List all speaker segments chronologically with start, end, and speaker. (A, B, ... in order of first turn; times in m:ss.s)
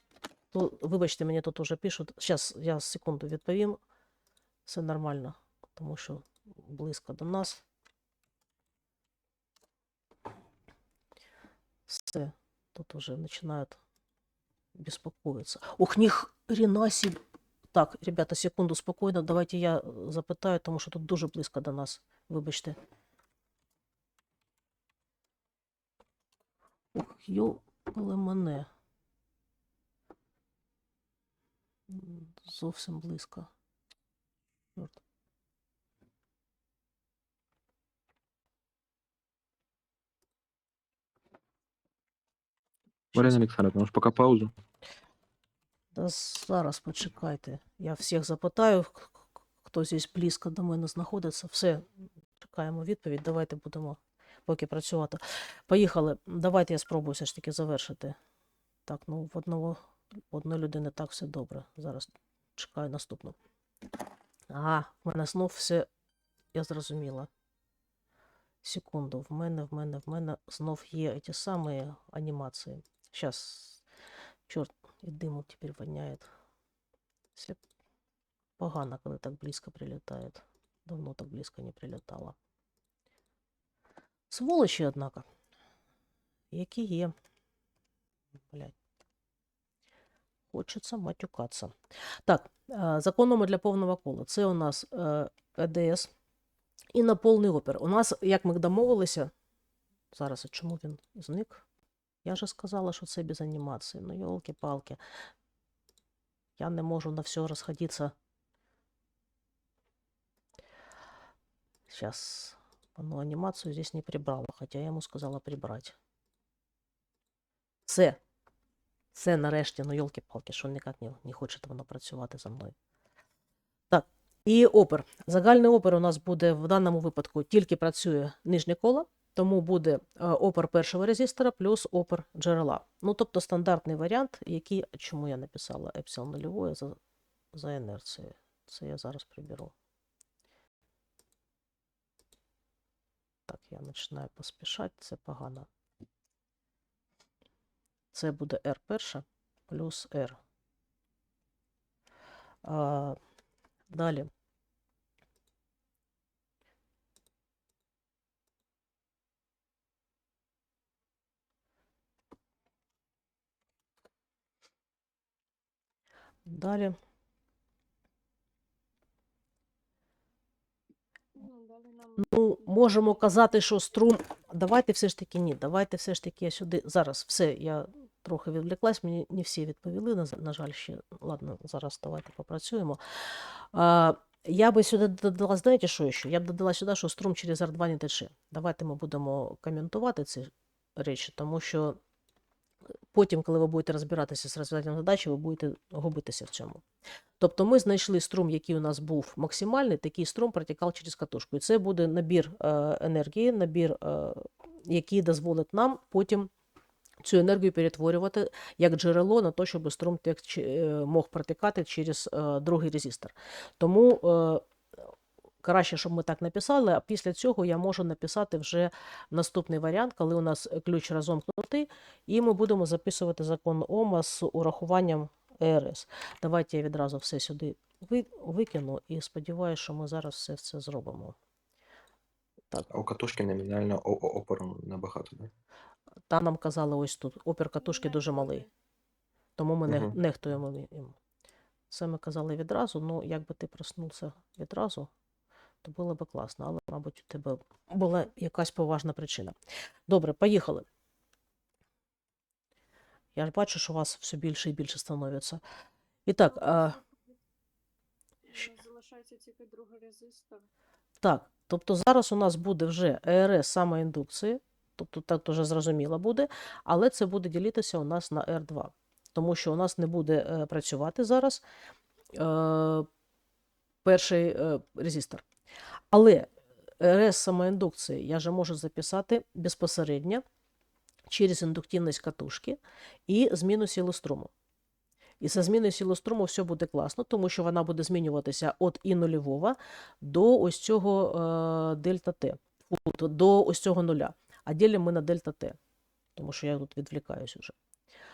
0:00.5-0:03.8 A
0:04.6-0:07.6 A
0:11.9-0:13.8 A
0:14.7-0:17.2 A
0:17.7-0:22.8 A
0:26.9-0:28.7 A
0:31.9-0:33.5 A
0:43.1-0:44.5 B
0:45.9-0:51.8 A
0:52.4-0:58.2 A
0:58.9-0:59.8 A
1:00.3-1:03.4 A
1:04.5-1:05.9 A
1:06.5-1:07.3 A
1:08.6-1:13.8 A
1:14.5-1:16.2 A
1:18.6-1:22.3 A
1:24.3-1:25.2 A
1:26.5-1:27.1 A
1:30.5-1:31.7 A
1:32.2-1:36.1 A
1:36.9-1:39.3 A
1:40.1-1:41.6 A
1:42.2-1:45.0 A
1:46.6-1:48.1 A
1:51.9-1:55.9 A
1:57.9-1:58.2 A
1:59.1-2:02.7 A
2:03.9-2:17.0 A
2:17.5-2:19.7 A
2:23.5-2:25.7 A
2:28.1-2:30.4 A
2:32.6-2:33.2 A
2:33.9-2:34.3 A
2:46.4-2:47.0 A
2:51.3-2:53.4 C
2:52.2-3:12.0 A
3:13.1-3:16.8 A
3:17.4-3:26.5 A
3:27.2-3:34.6 A
3:35.6-3:51.3 A
3:52.9-3:55.5 B
3:56.3-3:58.6 A
3:57.8-3:58.7 C
3:59.6-4:01.2 A
3:59.9-4:00.1 B
4:01.9-4:05.1 A
4:05.8-4:09.5 A
4:10.1-4:10.8 A
4:13.3-4:15.6 A
4:16.3-4:17.0 A
4:16.5-4:17.3 C
4:18.4-4:20.7 C
4:21.2-4:31.6 A
4:32.3-4:33.1 A
4:34.0-4:35.4 A
4:36.1-4:40.4 A
4:41.3-4:44.5 A
4:45.4-4:55.8 A
4:56.4-4:57.7 A